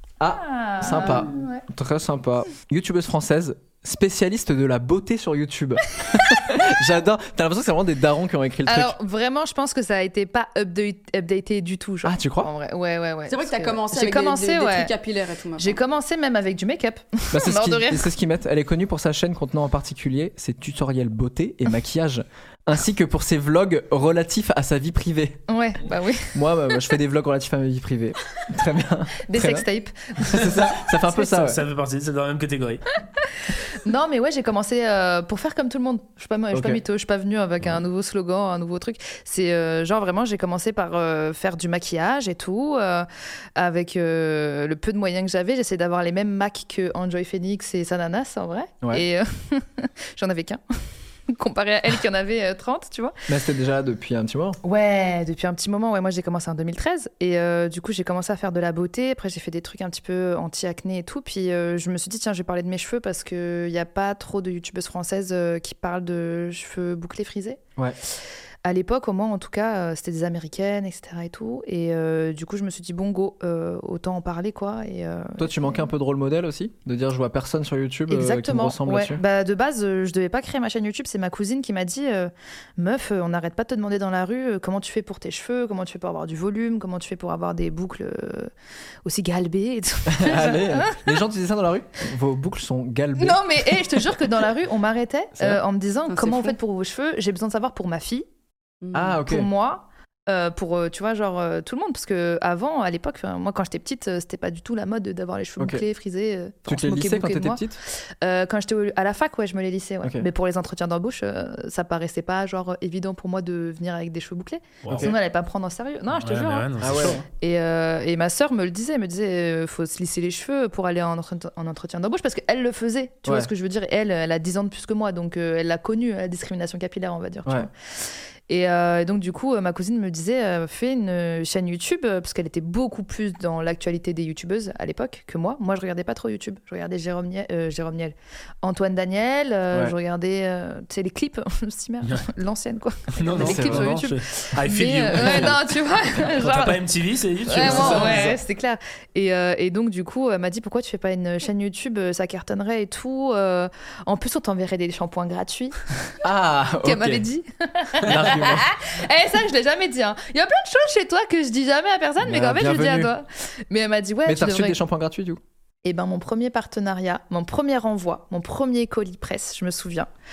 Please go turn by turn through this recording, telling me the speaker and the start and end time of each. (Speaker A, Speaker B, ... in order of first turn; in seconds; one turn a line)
Speaker A: 0.2-8.9
Speaker B: 0.3-1.6
Speaker B: 8.7-14.9
Speaker A: 12.0-12.5
Speaker C: 13.3-15.8
Speaker B: 15.6-18.1
Speaker A: 17.3-25.4
Speaker B: 25.5-26.3
Speaker A: 26.3-29.7
Speaker B: 29.2-30.7
Speaker A: 30.2-31.6
Speaker D: 31.1-32.9
Speaker B: 33.8-50.6
Speaker A: 36.5-36.8
Speaker B: 51.3-53.1
Speaker A: 53.3-54.6
Speaker B: 54.6-67.6
Speaker B: 68.6-75.8
Speaker A: 75.4-79.2
Speaker B: 78.1-88.5
Speaker B: 89.0-91.1
Speaker A: 90.1-94.3
Speaker B: 93.2-98.2
Speaker C: 96.1-96.5
Speaker C: 98.8-99.2
Speaker A: 98.9-99.5
Speaker B: 99.2-107.6
Speaker A: 105.6-105.8
Speaker A: 106.7-107.8
Speaker B: 108.2-127.7
Speaker A: 110.0-110.3
Speaker D: 114.8-115.1
Speaker A: 114.9-115.1
Speaker D: 116.2-117.2
Speaker A: 116.8-117.2
Speaker B: 128.5-146.8
Speaker D: 143.2-148.4
Speaker A: 143.3-143.9
Speaker A: 145.2-145.5
Speaker B: 147.5-155.8
Speaker A: 147.5-148.3
Speaker A: 156.2-157.2
Speaker B: 156.8-164.8
Speaker A: 158.0-158.7
Speaker D: 158.1-158.6
Speaker A: 162.2-163.1
Speaker A: 164.2-165.4
Speaker B: 165.8-170.1